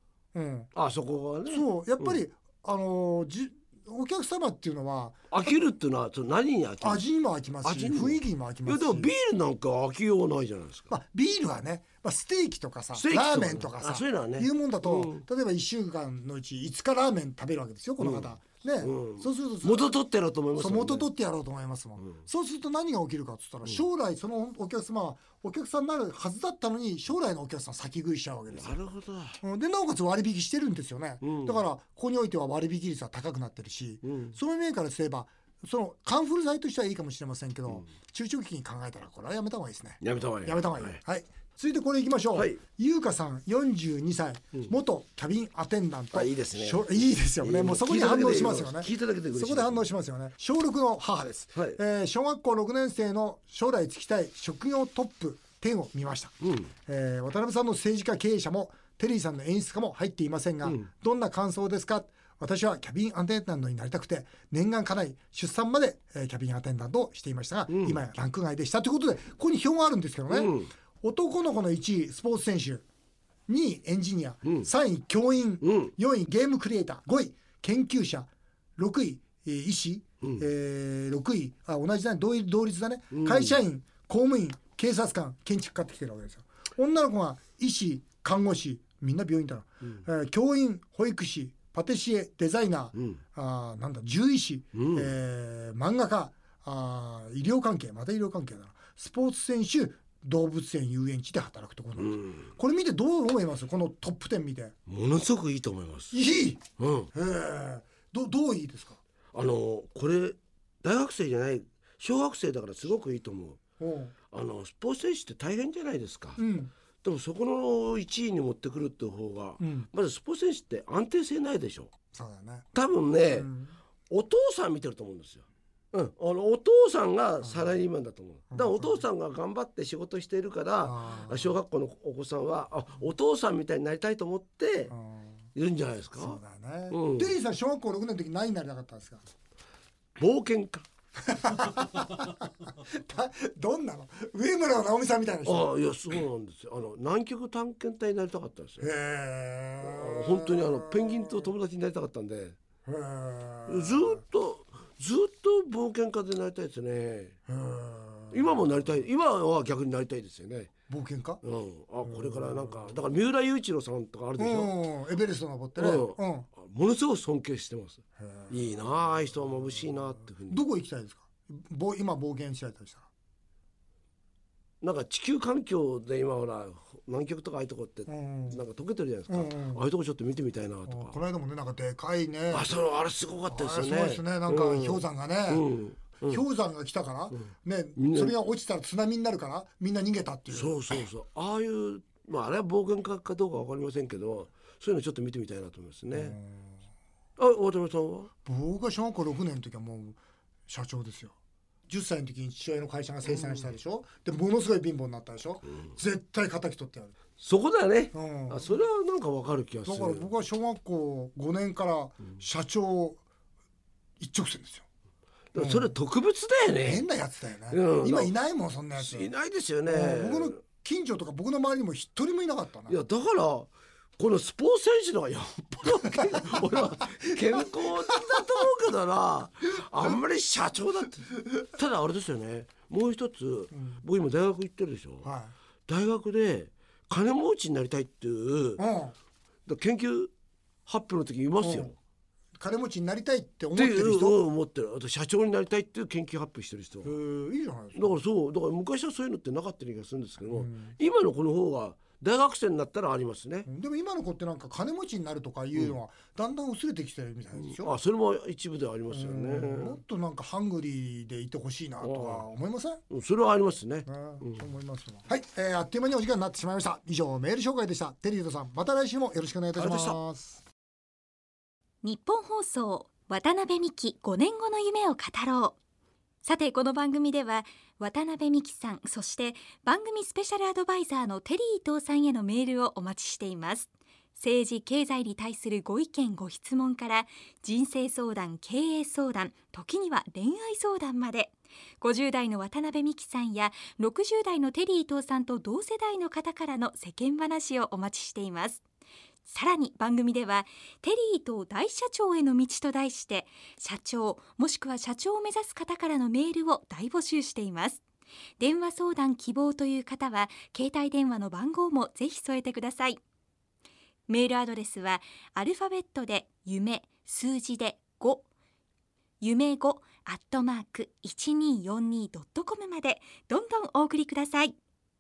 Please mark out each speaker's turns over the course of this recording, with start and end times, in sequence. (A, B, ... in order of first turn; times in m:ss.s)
0:00.3-0:00.7 A
0:00.7-0:02.2 B
0:01.5-0:05.6 A
0:05.3-0:07.0 B
0:06.8-0:09.1 A
0:07.6-0:10.9 B
0:10.9-0:19.9 A
0:12.9-0:15.2 B
0:18.0-0:18.3 B
0:18.8-0:21.1 B
0:20.6-0:28.8 A
0:28.5-0:29.4 B
0:29.4-0:56.3 A
0:31.2-0:31.6 B
0:34.0-0:34.4 B
0:40.0-0:41.0 B
0:42.3-0:42.6 B
0:46.1-0:49.9 B
0:56.4-0:56.7 B
0:56.8-1:12.8 A
1:07.7-1:08.0 B
1:10.3-1:10.7 B
1:13.5-1:44.7 A
1:15.6-1:15.9 B
1:23.1-1:23.6 B
1:32.9-1:33.2 B
1:34.7-1:35.1 B
1:42.0-1:42.5 B
1:44.9-1:46.2 B
1:46.1-1:46.6 A
1:46.8-1:47.1 B
1:47.1-1:49.0 A
1:49.3-1:53.6 B
1:53.8-1:54.1 A
1:54.3-1:56.4 B
1:56.4-1:56.7 A
1:57.0-2:01.9 B
1:59.6-1:59.9 A
2:02.1-2:02.7 A
2:02.7-2:03.5 B
2:03.3-2:03.8 A
2:04.1-2:14.9 B
2:07.4-2:07.7 A
2:08.5-2:09.0 A
2:10.8-2:11.5 A
2:14.9-2:15.4 A
2:15.5-2:17.3 B
2:16.2-2:19.2 A
2:20.2-2:20.8 B
2:21.3-2:25.7 A
2:25.4-2:28.9 B
2:28.8-2:31.5 A
2:29.8-2:32.6 B
2:32.8-2:34.2 A
2:33.7-2:37.4 B
2:37.5-2:38.6 A
2:38.3-2:40.7 B
2:40.9-2:41.4 A
2:41.4-2:44.7 B
2:42.0-2:42.9 A
2:44.4-2:46.5 A
2:45.8-2:50.6 B
2:48.2-2:48.7 A
2:50.5-2:53.1 A
2:54.8-3:01.2 B
2:58.1-2:58.6 A
2:59.3-2:59.8 A
3:00.8-3:02.7 A
3:02.5-3:06.4 B
3:03.5-3:05.6 A
3:06.2-3:11.0 A
3:07.3-3:08.4 B
3:10.5-3:16.4 B
3:16.1-3:16.8 A
3:17.4-3:18.3 B
3:18.4-3:21.3 A
3:21.9-3:27.2 A
3:23.3-3:23.6 B
3:27.4-3:30.3 B
3:28.1-3:28.7 A
3:29.8-3:33.2 A
3:34.2-3:34.8 A
3:35.5-3:37.0 B
3:35.6-3:35.9 A
3:36.8-3:39.3 A
3:37.7-3:38.3 B
3:38.9-3:40.6 B
3:39.8-3:43.0 A
3:42.9-3:55.3 B
3:53.7-3:54.0 A
3:55.2-3:55.5 A
3:55.9-3:58.8 B
3:58.8-3:59.1 A
3:59.6-4:00.3 B
4:00.8-4:01.9 B
4:01.6-4:01.9 A
4:02.6-4:04.4 A
4:03.8-4:07.1 B
4:07.0-4:08.2 A
4:07.9-4:13.7 B
4:10.5-4:10.9 A
4:13.6-4:17.9 A
4:17.5-4:20.0 B
4:19.1-4:23.0 A
4:22.0-4:22.4 B
4:23.1-4:24.6 B
4:24.1-4:30.6 A
4:29.8-4:30.2 B
4:32.0-4:35.8 C
4:36.4-4:58.8 C
4:59.4-5:08.0 C
5:08.6-5:13.2 C
5:14.3-5:18.4 C
5:19.4-5:24.8 C